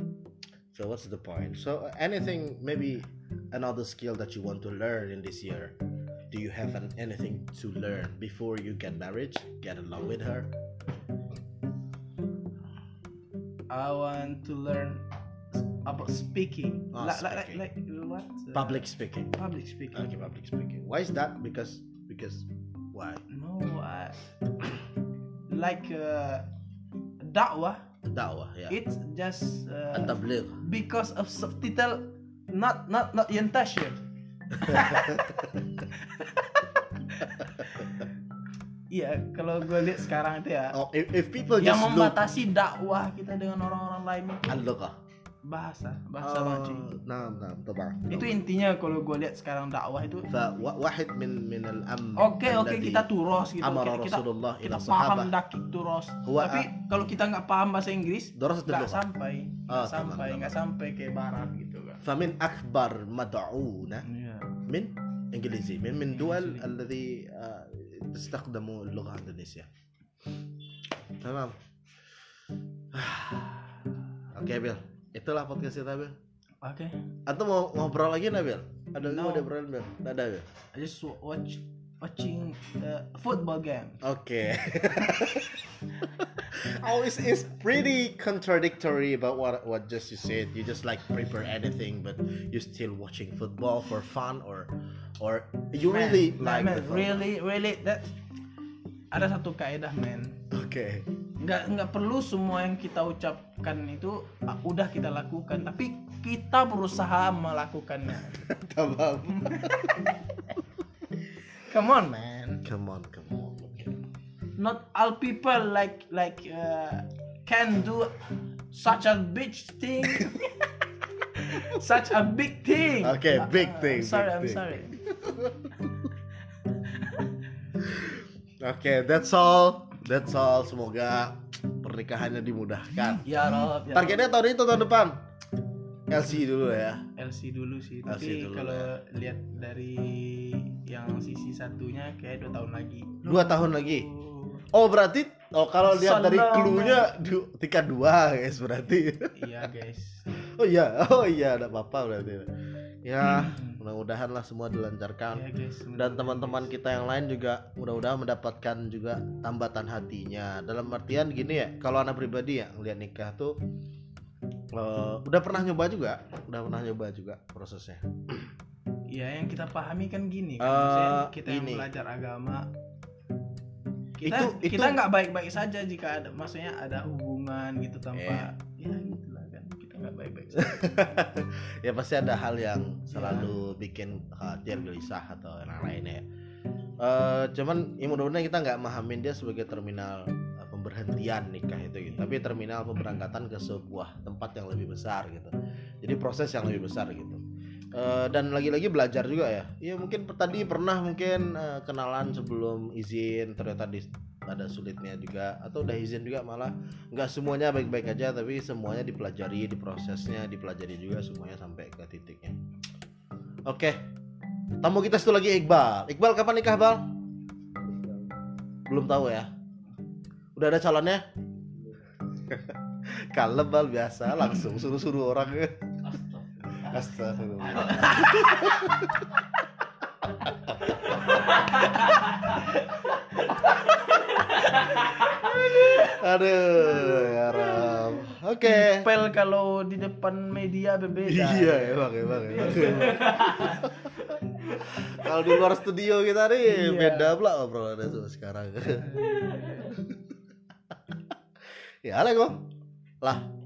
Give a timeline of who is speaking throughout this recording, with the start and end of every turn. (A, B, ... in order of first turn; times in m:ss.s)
0:00.7-0:05.8 A
0:06.3-0:10.5 A
0:13.7-0:15.0 B
0:15.7-0:20.2 B
0:16.9-0:17.6 A
0:18.5-0:19.4 A
0:19.9-0:23.2 A
0:23.3-0:24.2 B
0:25.5-0:26.5 B
0:27.2-0:27.8 B
0:28.1-0:28.8 A
0:28.7-0:34.0 B
0:29.9-0:30.6 A
0:34.5-0:35.3 B
0:34.7-0:35.6 A
0:35.9-0:38.0 B
0:38.9-0:40.8 B
0:40.7-0:42.2 A
0:41.6-0:44.6 B
0:44.5-0:45.0 A
0:45.4-0:46.8 B
0:46.2-0:48.4 A
0:48.1-0:50.3 B
0:50.3-0:53.1 A
0:52.2-1:02.0 B
0:53.6-0:55.3 A
0:56.2-0:56.7 A
0:58.3-0:59.0 A
0:59.7-1:00.6 A
1:02.0-1:04.0 A
1:04.0-1:04.6 B
1:04.6-1:09.7 A
1:06.1-1:06.7 B
1:11.2-1:11.6 A
1:12.9-1:13.6 A
1:14.3-1:16.1 A
1:16.6-1:17.0 B
1:17.2-1:20.5 A
1:19.0-1:19.5 B
1:20.7-1:24.0 B
1:24.0-1:25.6 A
1:26.2-1:37.2 A
1:35.9-1:38.1 B
1:39.1-1:40.4 B
1:40.5-1:41.1 A
1:41.4-1:48.4 B
1:48.2-1:50.0 A
1:49.3-1:50.0 B
1:51.5-1:52.6 B
1:52.6-1:54.0 A
1:54.6-1:58.2 B
1:58.7-2:00.7 B
2:01.2-2:05.0 B
2:03.0-2:05.7 A
2:06.7-2:07.3 B
2:07.8-2:15.2 A
2:13.2-2:14.3 B
2:16.1-2:17.0 A
2:17.2-2:24.6 B
2:18.1-2:18.9 A
2:23.2-2:24.1 A
2:24.7-2:29.7 A
2:25.9-2:27.1 B
2:29.4-2:30.3 B
2:30.4-2:32.5 A
2:33.0-2:43.6 A
2:33.2-2:33.8 B
2:35.3-2:36.7 B
2:44.7-2:48.5 A
2:49.1-2:52.7 B
2:50.6-2:51.8 A
2:54.2-3:01.0 B
2:54.2-2:55.0 A
2:58.1-2:58.5 A
3:00.6-3:06.2 A
3:03.1-3:03.5 B
3:07.0-3:32.6 A
3:33.6-3:34.0 A
3:34.8-3:37.0 A
3:38.9-3:39.5 A
3:40.5-3:41.2 A
3:42.5-3:42.8 A
3:43.3-3:46.1 A
3:46.8-3:49.3 A
3:47.7-3:48.7 B
3:50.4-3:50.7 A
3:51.3-3:56.0 B
3:55.5-3:59.1 A
3:58.6-4:03.9 B
4:01.2-4:10.2 A
4:06.6-4:07.3 B
4:09.0-4:09.9 B
4:12.0-4:12.6 A